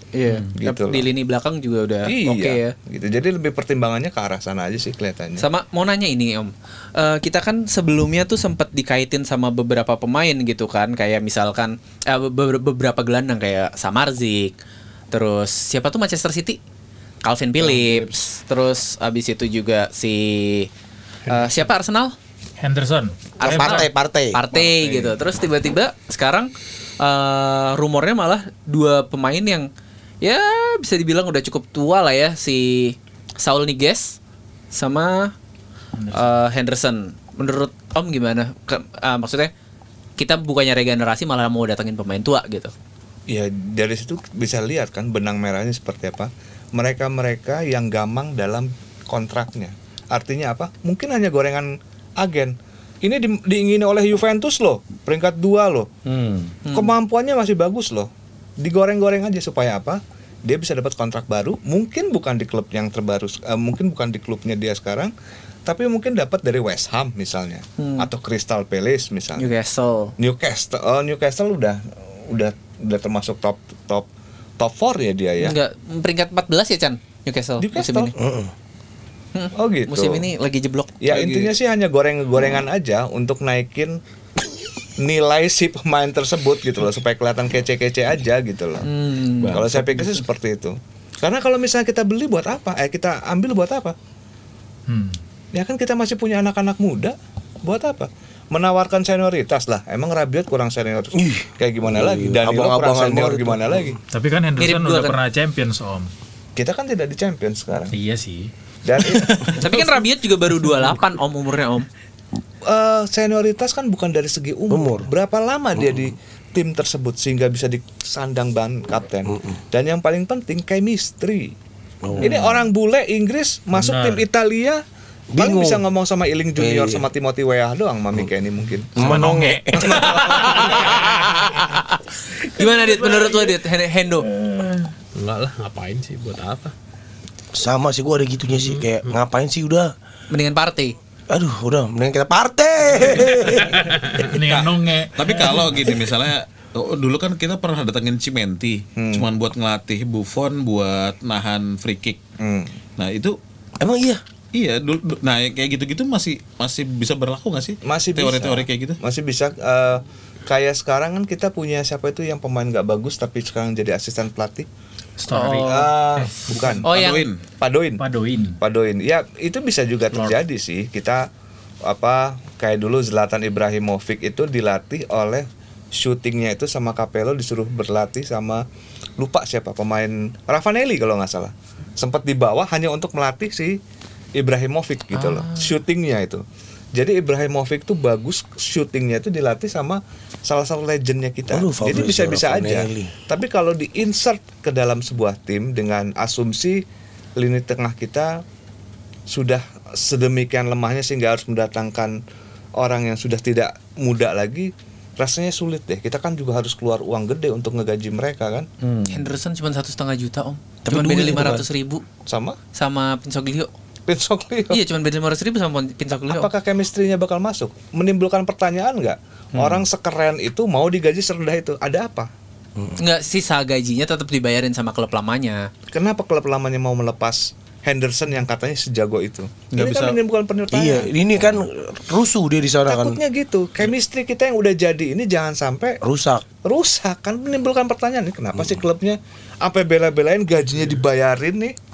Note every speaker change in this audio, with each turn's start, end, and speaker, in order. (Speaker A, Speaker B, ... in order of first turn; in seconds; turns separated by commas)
Speaker A: 0.1-2.7, Speaker B: 0.6-1.1, Speaker B: 2.1-5.5, Speaker A: 5.4-14.6, Speaker A: 15.1-16.6, Speaker A: 17.2-20.7, Speaker C: 17.6-18.0, Speaker D: 21.2-21.7, Speaker A: 21.3-22.1, Speaker E: 22.6-23.9, Speaker F: 23.4-24.4, Speaker A: 23.4-29.7, Speaker C: 24.5-25.2, Speaker A: 30.2-34.2, Speaker A: 34.7-35.3, Speaker E: 36.0-36.4, Speaker A: 36.1-39.5, Speaker A: 40.2-42.7, Speaker B: 43.3-55.9, Speaker C: 56.1-56.5, Speaker A: 56.6-56.9, Speaker B: 56.7-65.1, Speaker B: 65.7-69.5, Speaker A: 67.8-68.1, Speaker A: 69.4-70.1, Speaker B: 70.2-74.1, Speaker B: 74.6-75.6, Speaker A: 75.4-78.1, Speaker B: 77.6-78.2, Speaker F: 78.2-78.5, Speaker A: 79.3-81.0, Speaker B: 79.6-80.3, Speaker B: 81.0-84.0, Speaker C: 81.1-81.5, Speaker B: 85.0-88.9, Speaker A: 88.8-89.5, Speaker C: 89.4-90.2, Speaker B: 89.5-94.0, Speaker E: 94.9-95.2, Speaker B: 95.5-104.0, Speaker F: 101.1-103.9, Speaker E: 104.1-106.1, Speaker A: 104.6-105.2, Speaker B: 106.6-108.0, Speaker E: 107.9-108.5, Speaker B: 108.8-109.8, Speaker A: 109.6-111.9, Speaker E: 110.7-111.0, Speaker B: 112.7-121.5, Speaker F: 114.7-115.1, Speaker F: 115.8-116.1, Speaker F: 119.3-119.6, Speaker F: 122.0-122.7, Speaker B: 122.2-124.8, Speaker E: 123.8-124.2, Speaker F: 125.3-125.8, Speaker B: 125.4-129.3, Speaker F: 126.6-127.1, Speaker F: 128.9-130.1, Speaker E: 129.0-129.8, Speaker B: 129.8-130.7, Speaker A: 129.8-134.3, Speaker E: 134.4-134.8, Speaker D: 135.2-136.7, Speaker F: 137.5-139.9, Speaker D: 138.5-139.2, Speaker A: 140.3-140.9, Speaker F: 141.3-143.8, Speaker D: 143.7-144.3, Speaker E: 144.2-146.0, Speaker C: 145.2-152.2, Speaker B: 149.0-149.3, Speaker B: 152.4-152.8, Speaker C: 153.0-153.4, Speaker F: 153.8-154.2, Speaker C: 154.5-159.0, Speaker B: 157.9-164.7, Speaker E: 165.2-166.8, Speaker A: 165.3-165.9, Speaker B: 165.6-166.9, Speaker A: 166.8-167.3, Speaker C: 166.8-167.4, Speaker B: 167.6-168.0, Speaker E: 168.0-168.6, Speaker B: 168.6-171.3, Speaker E: 170.1-170.4, Speaker B: 171.8-178.7, Speaker B: 179.2-183.8, Speaker B: 184.4-186.4, Speaker A: 185.1-185.8, Speaker B: 186.9-196.8, Speaker F: 191.5-193.1, Speaker B: 197.4-198.4, Speaker B: 199.3-202.2, Speaker B: 202.8-208.7, Speaker C: 208.8-209.3, Speaker A: 209.1-212.0, Speaker F: 210.8-211.6, Speaker B: 212.3-212.6, Speaker A: 212.8-213.7, Speaker B: 214.1-214.8, Speaker A: 214.7-216.5, Speaker B: 216.2-222.3, Speaker C: 219.6-219.8, Speaker A: 223.0-225.7, Speaker B: 225.9-231.1, Speaker C: 229.7-230.2, Speaker F: 230.7-233.2, Speaker B: 232.9-236.0, Speaker F: 236.0-236.4, Speaker B: 236.6-241.8